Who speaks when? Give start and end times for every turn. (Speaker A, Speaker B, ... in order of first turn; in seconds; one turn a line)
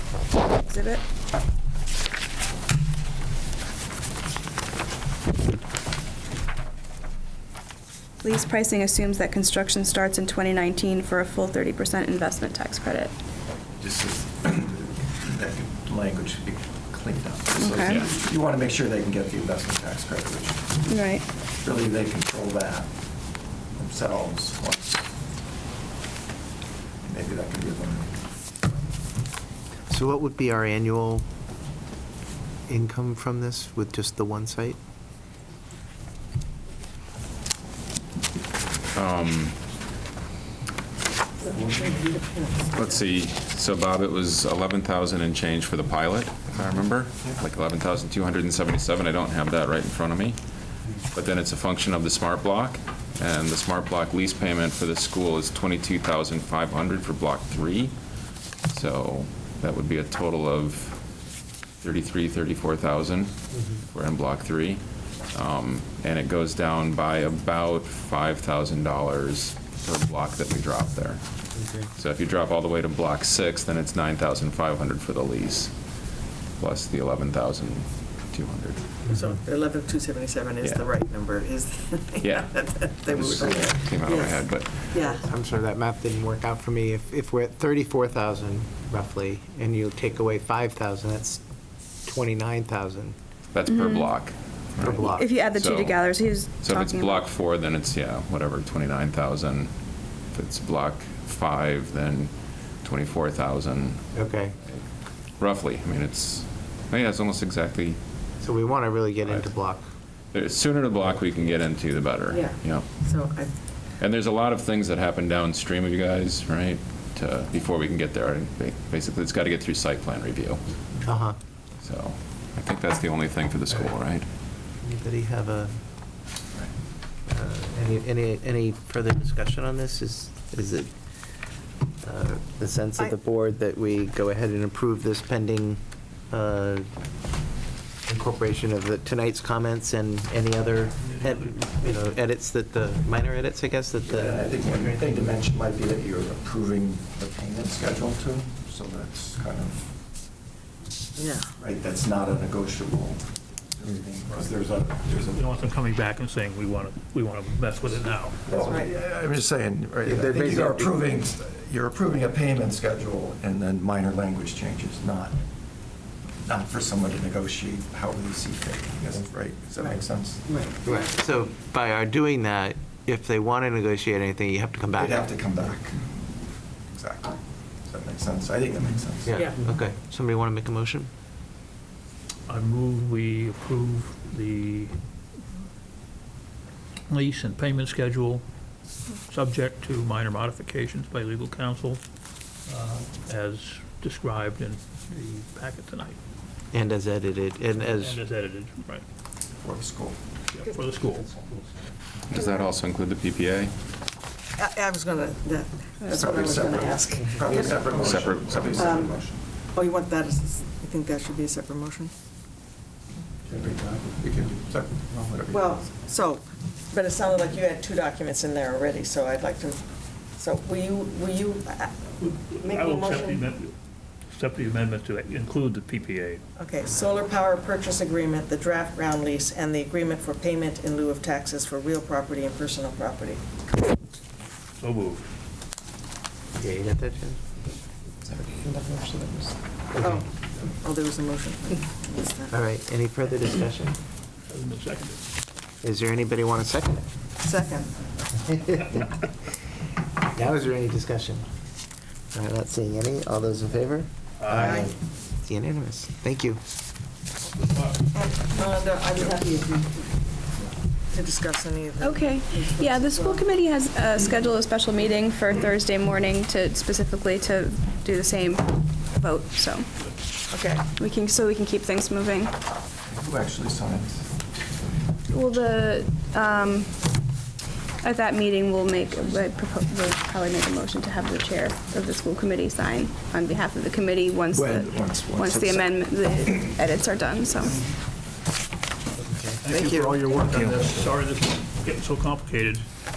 Speaker A: 0.6-1.0
Speaker A: 8.2-13.1
Speaker B: 13.8-20.8
Speaker A: 17.6-18.1
Speaker A: 20.9-21.3
Speaker B: 21.6-22.9
Speaker B: 23.7-25.0
Speaker B: 27.0-28.1
Speaker C: 29.9-31.2
Speaker C: 32.7-34.8
Speaker D: 39.0-39.6
Speaker B: 41.5-41.8
Speaker E: 41.6-43.0
Speaker D: 42.7-50.4
Speaker D: 51.1-58.0
Speaker D: 58.6-61.0
Speaker D: 61.8-75.7
Speaker C: 63.5-63.8
Speaker C: 71.5-71.9
Speaker D: 76.6-78.9
Speaker E: 79.1-83.4
Speaker C: 79.1-79.3
Speaker D: 80.6-80.9
Speaker D: 82.2-85.1
Speaker B: 83.2-84.0
Speaker E: 84.0-85.3
Speaker C: 85.2-91.4
Speaker C: 92.0-93.2
Speaker D: 93.5-99.7
Speaker A: 93.7-94.1
Speaker C: 94.8-95.3
Speaker A: 94.8-97.2
Speaker D: 100.3-104.8
Speaker C: 104.1-104.5
Speaker D: 105.4-108.0
Speaker C: 108.4-109.9
Speaker D: 110.3-112.9
Speaker E: 112.3-113.5
Speaker D: 114.0-120.6
Speaker C: 121.1-121.4
Speaker D: 121.8-124.2
Speaker C: 124.8-125.7
Speaker C: 127.3-130.9
Speaker C: 132.0-136.9
Speaker C: 138.1-145.2
Speaker F: 141.0-141.7
Speaker B: 144.1-149.9
Speaker E: 151.2-151.5
Speaker B: 151.6-155.6
Speaker F: 154.3-158.4
Speaker B: 158.4-165.4
Speaker E: 158.6-158.9
Speaker C: 160.0-161.0
Speaker B: 166.4-170.5
Speaker E: 170.5-171.1
Speaker C: 170.8-175.3
Speaker B: 174.9-179.4
Speaker C: 179.2-181.1
Speaker E: 179.3-179.7
Speaker F: 182.5-184.9
Speaker F: 187.1-188.4
Speaker F: 189.3-192.0
Speaker F: 192.7-196.2
Speaker C: 196.7-198.2
Speaker F: 197.8-199.0
Speaker B: 199.5-200.2
Speaker F: 200.5-201.4
Speaker D: 202.3-203.7
Speaker E: 204.6-207.9
Speaker A: 206.0-206.8
Speaker B: 206.1-209.4
Speaker D: 207.9-208.9
Speaker E: 208.7-209.2
Speaker E: 209.7-212.1
Speaker B: 213.4-215.9
Speaker E: 215.5-222.0
Speaker F: 222.2-223.7
Speaker E: 222.6-223.4
Speaker F: 224.3-226.4
Speaker E: 226.6-233.4
Speaker F: 234.8-235.2
Speaker C: 236.6-237.4
Speaker C: 238.2-240.2
Speaker E: 240.0-242.5
Speaker C: 242.5-244.0
Speaker F: 244.5-245.2
Speaker C: 245.8-247.1
Speaker E: 247.4-247.9
Speaker C: 248.4-249.2
Speaker C: 250.3-251.4
Speaker C: 252.3-256.6
Speaker F: 254.4-254.8
Speaker E: 254.5-254.9
Speaker F: 257.6-258.0
Speaker E: 258.1-260.2
Speaker E: 261.1-263.5
Speaker A: 262.0-269.9
Speaker E: 270.5-270.8
Speaker A: 270.9-272.5
Speaker B: 273.1-274.3
Speaker A: 275.3-277.0
Speaker A: 278.0-287.8
Speaker B: 284.5-286.1
Speaker C: 289.2-289.6
Speaker F: 289.6-292.8